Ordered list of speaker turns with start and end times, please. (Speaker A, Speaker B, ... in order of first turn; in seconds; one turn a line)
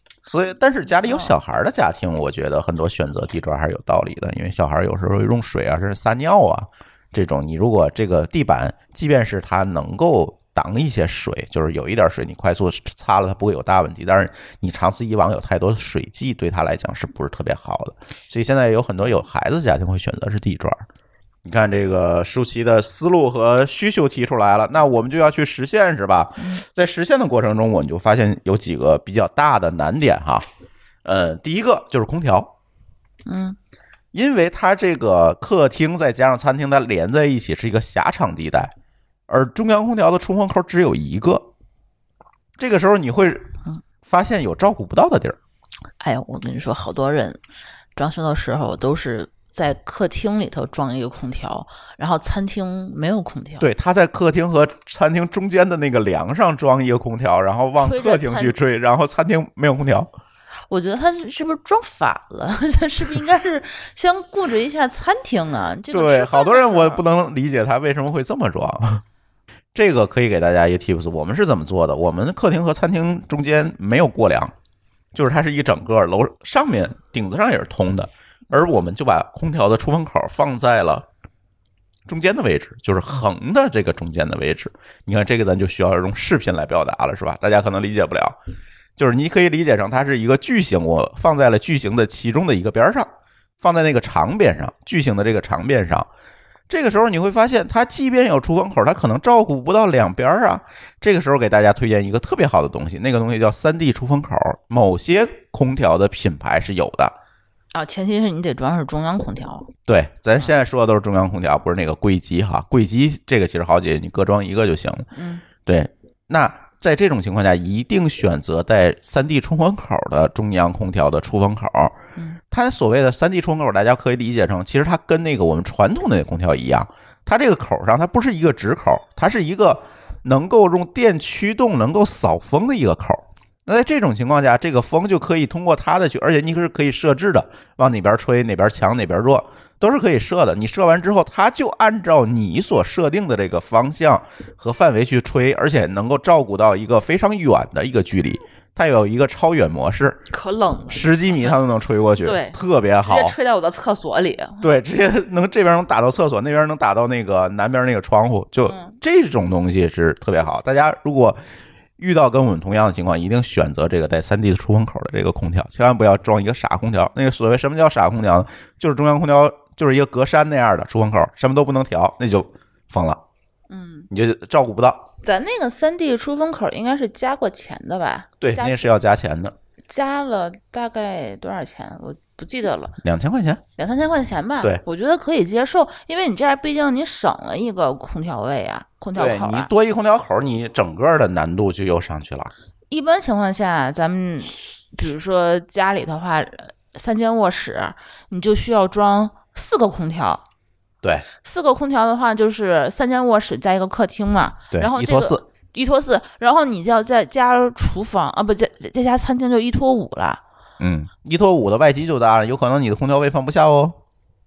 Speaker A: 0.2-20.9
Speaker B: 1.0-1.4
Speaker A: 21.4-30.5
Speaker A: 31.1-32.5
Speaker B: 33.3-33.6
Speaker A: 34.1-38.7
Speaker A: 39.3-41.5
Speaker A: 42.6-43.5
Speaker A: 44.0-45.4
Speaker B: 46.0-47.4
Speaker B: 48.0-53.7
Speaker A: 53.6-60.1
Speaker B: 57.8-58.6
Speaker B: 60.7-67.0
Speaker A: 65.9-69.0
Speaker A: 69.7-74.5
Speaker A: 75.1-81.1
Speaker A: 82.1-88.4
Speaker A: 89.0-93.1
Speaker A: 93.6-96.1
Speaker A: 96.7-107.2
Speaker B: 107.7-109.7
Speaker A: 109.9-115.1
Speaker B: 115.1-115.5
Speaker A: 115.7-122.0
Speaker A: 122.5-150.2
Speaker B: 150.3-151.6
Speaker A: 150.9-153.4
Speaker B: 152.2-154.7
Speaker A: 154.6-161.4
Speaker B: 158.7-158.9
Speaker A: 162.0-173.2
Speaker B: 173.7-174.1
Speaker A: 174.1-175.1
Speaker B: 175.2-178.9
Speaker A: 178.4-179.6
Speaker B: 179.9-183.0
Speaker A: 183.0-183.6
Speaker B: 183.8-189.7
Speaker A: 189.2-192.5
Speaker B: 192.9-200.4
Speaker B: 201.4-210.4
Speaker A: 204.7-205.4
Speaker A: 210.8-214.0